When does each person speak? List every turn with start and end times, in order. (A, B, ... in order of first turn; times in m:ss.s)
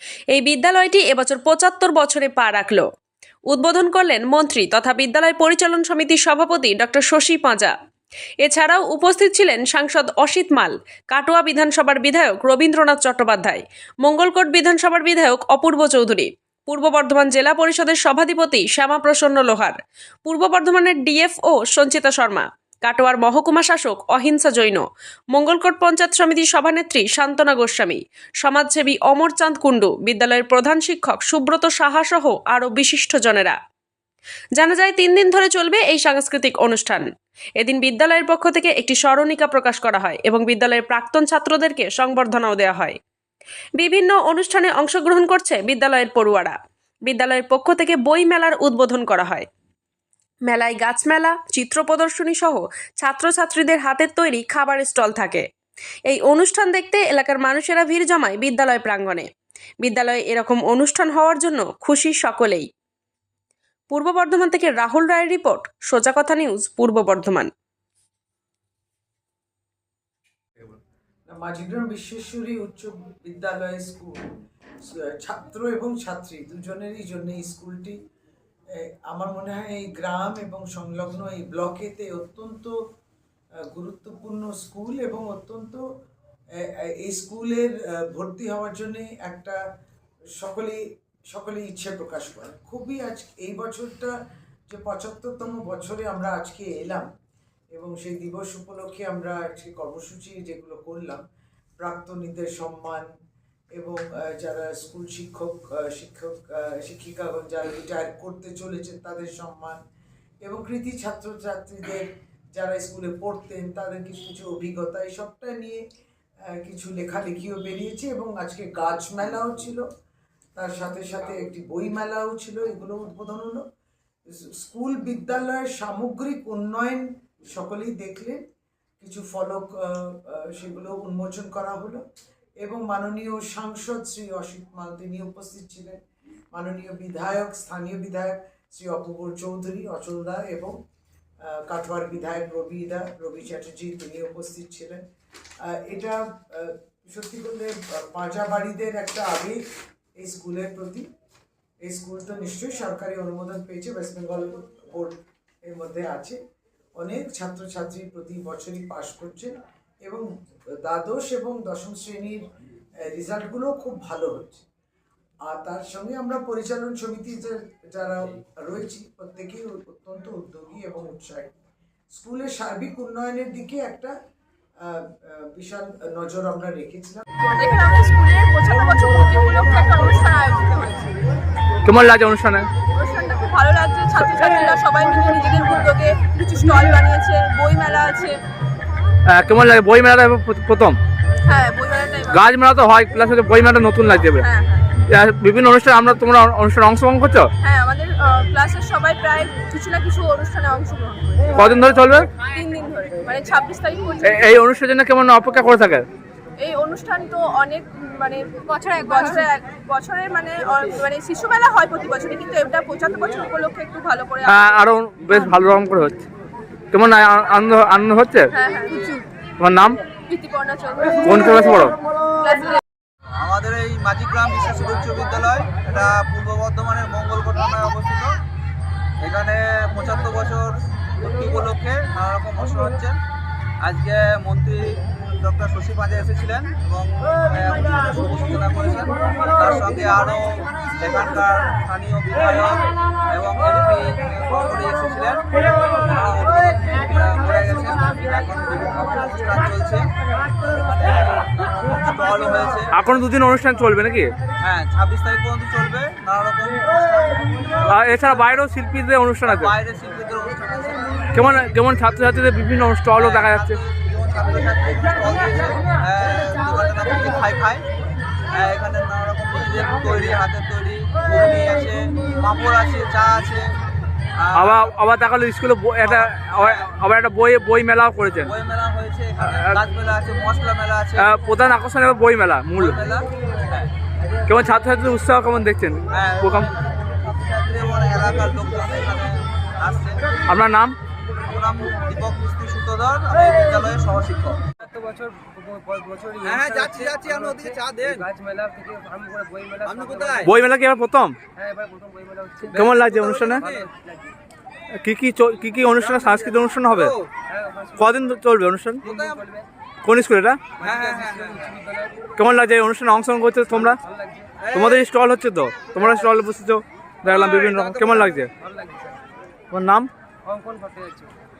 0:00.3-0:02.8 A
0:03.5-0:07.7 A
0:08.4-0:33.6 A
0:34.6-0:37.1 A
0:37.6-0:43.0 A
0:43.8-0:49.5 A
0:50.4-0:55.4 A
0:56.1-0:59.3 A
0:59.8-1:02.7 A
1:03.9-1:07.5 A
1:11.3-1:14.2 B
1:15.1-1:18.0 B
1:18.8-1:22.7 B
1:23.7-1:25.8 B
1:26.6-1:29.6 B
1:30.4-1:30.8 B
1:31.3-1:34.1 B
1:34.7-1:37.1 B
1:37.7-1:41.2 B
1:41.8-1:43.1 B
1:43.8-1:49.8 B
1:50.4-1:55.8 B
1:56.5-1:59.9 B
2:00.6-2:03.6 B
2:04.4-2:08.4 B
2:09.0-2:12.0 B
2:12.6-2:16.0 B
2:16.5-2:20.7 B
2:21.4-2:25.0 B
2:25.7-2:29.6 B
2:30.2-2:31.1 B
2:31.8-2:35.2 B
2:35.7-2:36.4 B
2:37.0-2:40.2 B
2:40.8-2:42.4 B
2:43.1-2:44.6 B
2:45.5-2:51.5 B
2:52.1-2:54.1 B
2:54.8-2:57.2 B
2:57.6-3:01.2 C
3:01.8-3:02.7 D
3:02.9-3:08.4 C
3:09.3-3:11.0 D
3:11.4-3:12.4 C
3:12.3-3:14.4 D
3:14.4-3:14.9 C
3:15.1-3:17.5 D
3:17.6-3:21.8 C
3:21.5-3:22.3 D
3:22.4-3:24.5 C
3:24.2-3:26.0 D
3:26.6-3:34.6 C
3:34.4-3:36.2 D
3:36.9-3:38.5 D
3:38.5-3:39.2 C
3:39.6-3:40.0 D
3:40.3-3:41.8 C
3:41.2-3:41.9 D
3:42.4-3:42.8 C
3:43.4-3:48.3 E
3:49.2-3:53.2 E
3:53.8-4:10.1 E
4:10.7-4:12.9 E
4:12.9-4:14.3 D
4:14.6-4:18.2 E
4:17.9-4:19.7 D
4:19.4-4:21.6 E
4:21.3-4:23.8 D
4:23.1-4:27.8 E
4:28.5-4:33.7 E
4:34.4-4:34.8 E
4:34.5-4:38.5 D
4:36.0-4:36.9 E
4:38.4-4:41.3 E
4:39.4-4:39.8 D
4:41.2-4:43.0 D
4:42.8-4:43.9 E
4:44.5-4:46.7 D
4:46.1-4:50.2 E
4:50.5-4:50.9 D
4:51.5-4:54.6 E
4:54.8-5:00.5 F
4:56.4-4:58.2 E
4:59.8-5:00.5 E
5:00.4-5:01.4 D
5:01.6-5:04.3 F
5:02.7-5:03.6 D
5:02.8-5:03.9 E
5:05.0-5:07.1 D
5:06.0-5:07.3 E
5:07.4-5:08.2 F
5:08.0-5:09.0 D
5:09.0-5:09.4 E
5:09.0-5:09.7 F
5:10.0-5:10.6 D
5:10.8-5:11.6 E
5:10.8-5:12.3 F
5:12.4-5:14.0 D
5:13.9-5:14.6 F
5:14.6-5:15.0 E
5:14.7-5:18.5 D
5:17.3-5:17.9 E
5:17.9-5:19.2 F
5:19.7-5:20.1 D
5:20.4-5:21.3 F